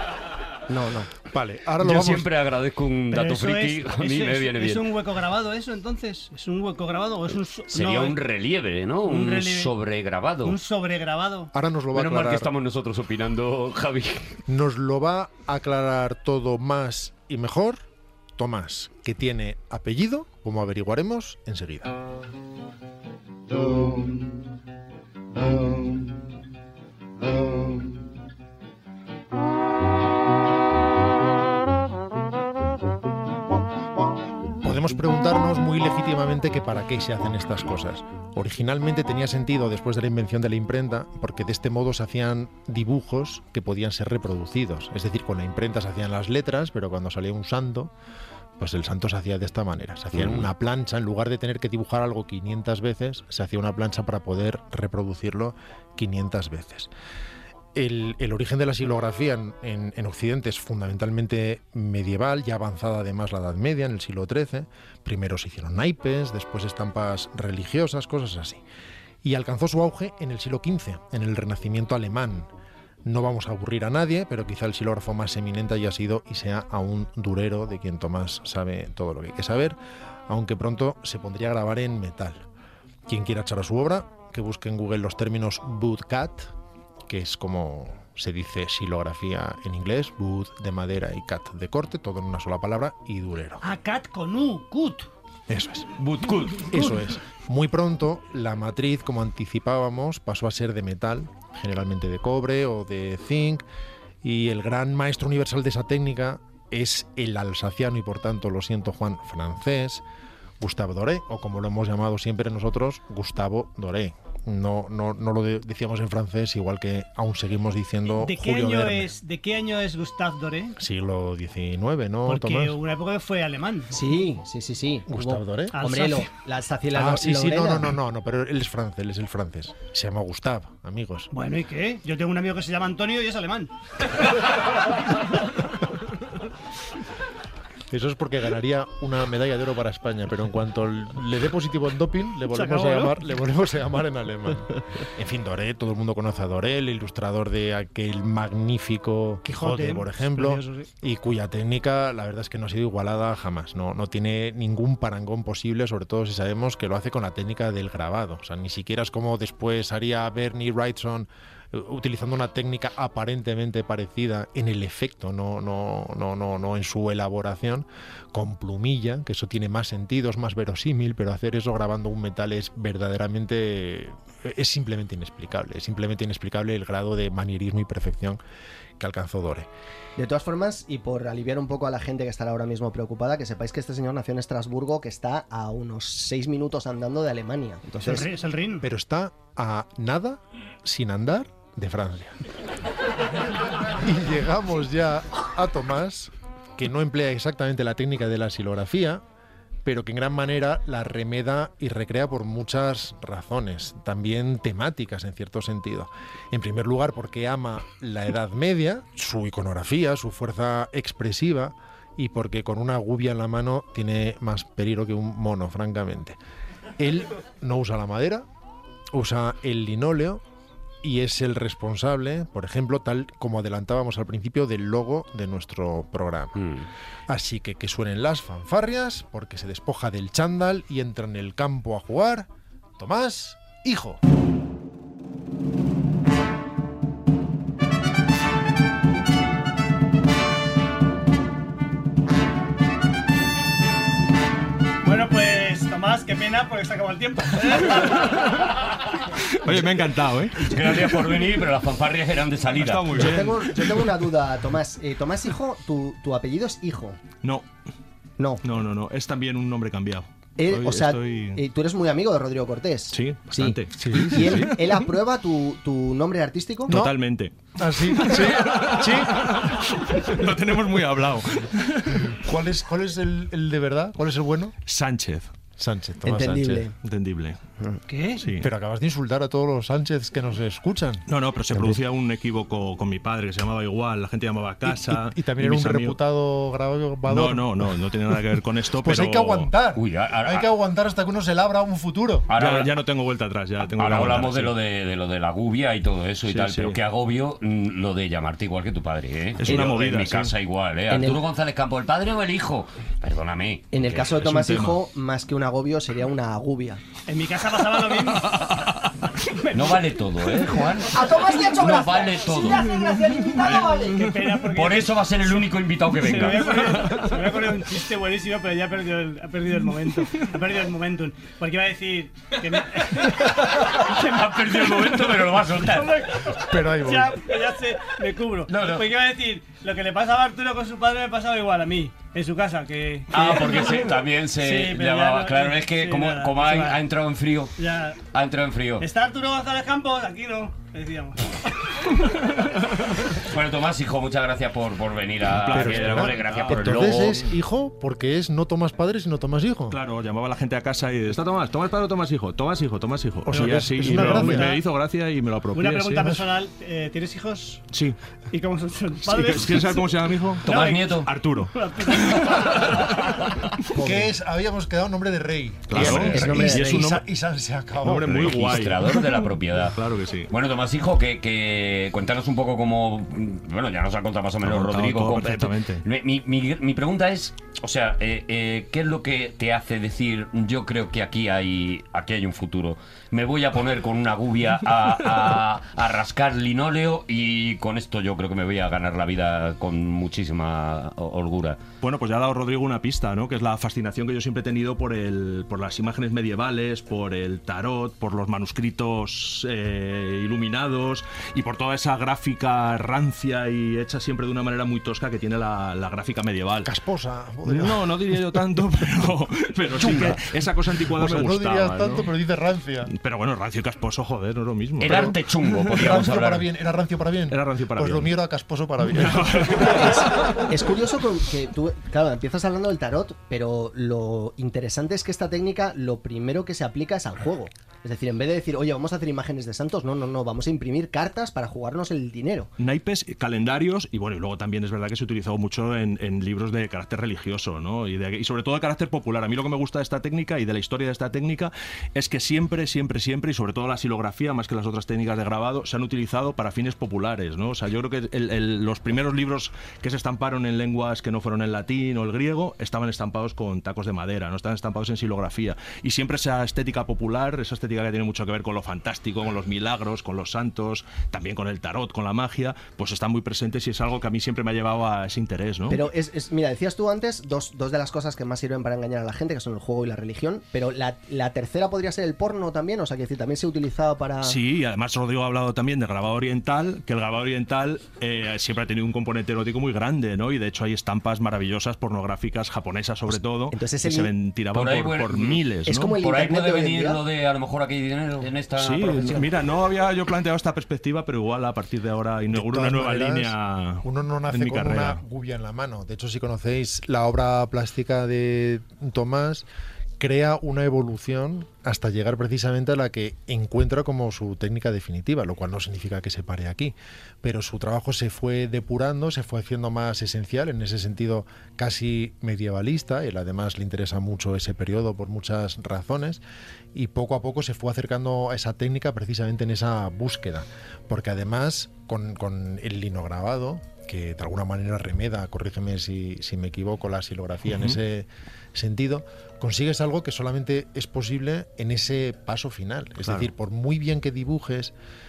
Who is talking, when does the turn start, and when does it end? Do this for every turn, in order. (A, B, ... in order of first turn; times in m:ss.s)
0:00.7-0:01.1 A
0:01.3-0:02.3 B
0:01.8-0:04.9 C
0:03.1-0:08.2 D
0:07.7-0:10.6 C
0:09.1-0:09.7 D
0:10.4-0:11.5 D
0:11.5-0:12.5 B
0:11.9-0:14.4 C
0:14.5-0:17.8 B
0:18.4-0:22.0 B
0:34.6-0:47.9 B
0:48.6-0:56.9 B
0:50.2-0:50.5 C
0:57.8-1:08.6 B
1:09.2-1:12.5 B
1:13.1-1:19.8 B
1:20.3-1:22.5 B
1:23.1-1:26.5 B
1:27.1-1:33.6 B
1:33.6-1:35.1 D
1:35.5-1:36.0 B
1:36.0-1:36.8 C
1:36.6-1:43.6 B
1:44.2-1:50.0 B
1:50.6-1:59.1 B
1:58.1-2:00.8 D
2:00.8-2:02.8 B
2:02.3-2:03.9 D
2:03.9-2:07.9 A
2:05.1-2:05.8 B
2:05.7-2:06.3 D
2:06.9-2:11.3 B
2:11.3-2:13.7 D
2:17.9-2:58.4 B
2:22.5-2:23.2 D
2:29.5-2:30.9 D
2:59.0-2:59.7 B
3:00.2-3:08.3 A
3:08.0-3:08.8 D
3:08.8-3:12.4 B
3:14.0-3:19.2 B
3:19.8-3:36.4 B
3:37.0-3:38.5 B
3:39.1-3:40.4 B
3:41.0-3:46.7 B
3:46.6-3:46.9 C
3:47.3-3:52.5 B
3:53.0-3:54.2 B
4:05.0-4:08.4 D
4:09.5-4:10.6 E
4:10.6-4:13.4 C
4:12.7-4:14.1 E
4:13.2-4:17.2 A
4:18.4-4:18.6 A
4:18.6-4:21.6 E
4:20.6-4:27.0 A
4:23.1-4:24.8 E
4:24.0-4:24.7 B
4:26.9-4:32.4 E
4:26.9-4:27.2 B
4:27.7-4:29.9 B
4:32.3-4:34.8 B
4:34.9-4:35.5 E
4:35.8-4:36.9 B
4:36.2-4:36.9 A
4:37.0-4:37.6 E
4:38.1-4:38.4 D
4:38.4-4:38.7 E
4:38.6-4:41.3 B
4:41.3-4:46.2 E
4:44.8-4:47.9 B
4:47.3-4:49.7 E
4:49.0-4:52.5 B
4:50.0-4:50.7 C
4:52.5-4:52.9 C
4:52.5-4:54.7 E
4:53.9-5:04.2 C
4:56.5-4:57.0 E
4:59.6-5:00.5 E
5:01.1-5:01.4 A
5:03.9-5:07.0 A
5:04.3-5:05.0 E
5:07.3-5:08.7 D
5:09.6-5:10.0 D
5:09.7-5:12.9 C
5:11.1-5:14.3 A
5:14.1-5:15.7 D
5:14.7-5:17.1 C
5:16.2-5:25.3 D
5:17.0-5:17.3 E
5:23.4-5:26.2 C
5:25.8-5:37.0 D
5:26.6-5:27.4 B
5:28.7-5:29.0 C
5:33.3-5:37.7 C
5:37.8-5:38.2 D
5:38.3-5:39.0 C
5:39.0-5:41.4 D
5:43.3-5:47.5 C
5:45.5-5:47.4 E
5:45.7-5:50.0 B
5:49.9-5:56.3 E
5:53.5-5:54.8 B
5:53.5-5:54.8 D
5:55.7-5:57.9 D
5:56.1-5:56.4 B
5:57.9-5:58.2 E
5:58.5-6:00.1 D
5:59.3-6:00.7 E
6:00.6-6:01.2 D
6:00.6-6:01.3 C
6:01.2-6:03.4 E
6:01.7-6:03.2 D
6:04.0-6:04.3 A
6:04.0-6:08.8 B
6:05.9-6:07.2 E
6:05.9-6:07.1 A
6:08.0-6:10.5 E
6:08.3-6:31.8 C
6:14.6-6:16.0 E
6:32.0-6:46.9 E
6:46.8-6:48.4 B
6:47.6-6:52.3 E
6:50.0-6:53.1 B
6:53.1-6:55.9 E
6:55.0-6:56.7 C
6:55.1-6:55.3 B
6:55.9-7:00.1 B
6:57.5-6:58.3 E
6:59.1-7:00.5 E
6:59.8-7:12.7 A
7:12.8-7:46.0 E
7:45.9-7:54.6 A
7:54.4-8:06.2 E
8:03.7-8:04.3 A
8:04.7-8:05.7 C
8:05.9-8:07.2 A
8:06.2-8:09.5 C
8:08.8-8:15.2 E
8:12.5-8:19.7 B
8:20.2-8:36.4 B
8:36.9-8:54.9 B
8:47.7-8:48.0 E
8:53.2-8:53.5 E